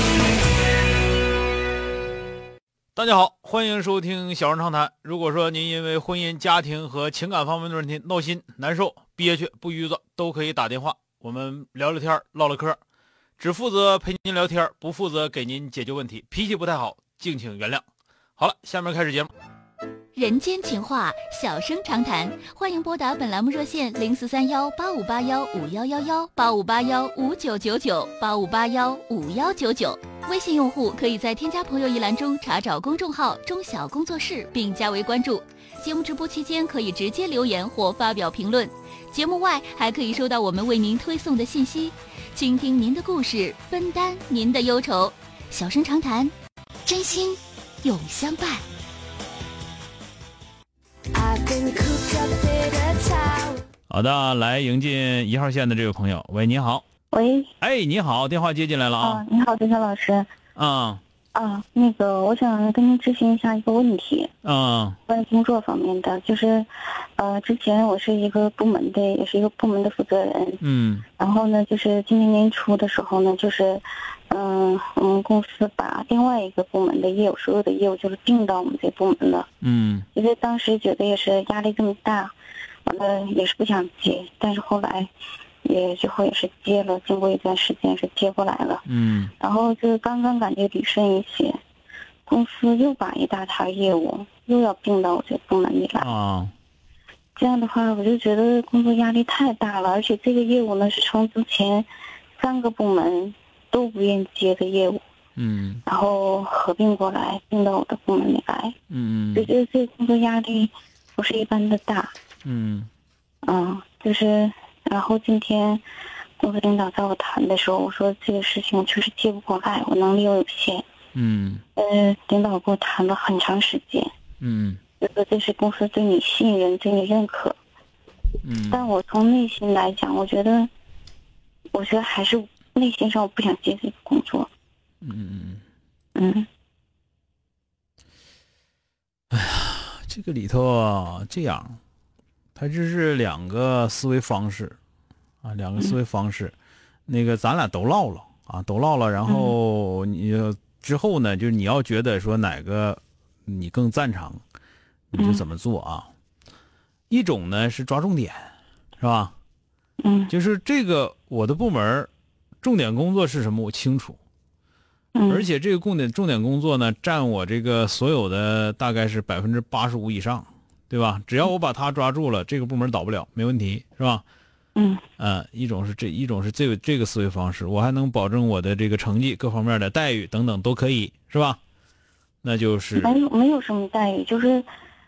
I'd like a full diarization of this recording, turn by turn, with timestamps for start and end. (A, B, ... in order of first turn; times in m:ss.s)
0:03.0-0:12.8 A
0:13.4-0:17.8 A
0:18.4-0:19.3 A
0:20.2-0:46.3 B
0:46.9-0:48.6 B
0:51.2-0:53.6 C
0:53.9-0:56.8 A
0:57.1-0:57.5 D
0:57.6-0:59.2 A
0:59.0-1:00.3 D
1:00.6-1:01.0 A
1:01.3-1:04.3 D
1:04.4-1:05.0 A
1:05.1-1:10.6 D
1:10.6-1:11.1 A
1:11.2-1:19.5 D
1:19.6-1:20.1 A
1:20.1-1:22.3 D
1:22.8-1:25.1 D
1:25.6-1:28.8 D
1:28.9-1:29.3 A
1:29.4-1:31.6 D
1:32.3-1:36.1 D
1:36.0-1:36.5 A
1:37.4-1:41.9 D
1:42.4-1:45.0 D
1:45.4-1:45.8 A
1:45.9-1:48.8 D
1:48.9-1:49.5 A
1:49.3-1:52.1 D
1:52.4-1:52.9 A
1:53.4-1:55.8 D
1:56.4-2:00.8 D
2:01.2-2:01.6 A
2:01.8-2:04.1 D
2:04.4-2:04.8 A
2:05.0-2:07.6 D
2:08.4-2:08.9 A
2:08.7-2:10.7 D
2:11.7-2:14.5 D
2:15.0-2:15.6 A
2:16.2-2:16.5 D
2:19.3-2:21.8 A
2:22.6-2:24.8 A
2:25.4-2:26.6 A
2:27.1-2:34.4 A
2:29.2-2:29.5 D
2:35.1-2:36.1 A
2:35.2-2:35.4 D
2:37.1-2:38.4 A
2:39.0-2:39.3 A
2:40.0-2:40.3 D
2:40.3-2:42.1 A
2:42.6-2:44.2 A
2:45.2-2:45.5 D
2:45.3-2:54.2 A
2:54.8-2:55.0 D
2:55.2-3:01.6 A
3:02.4-3:03.2 A
3:03.0-3:04.7 D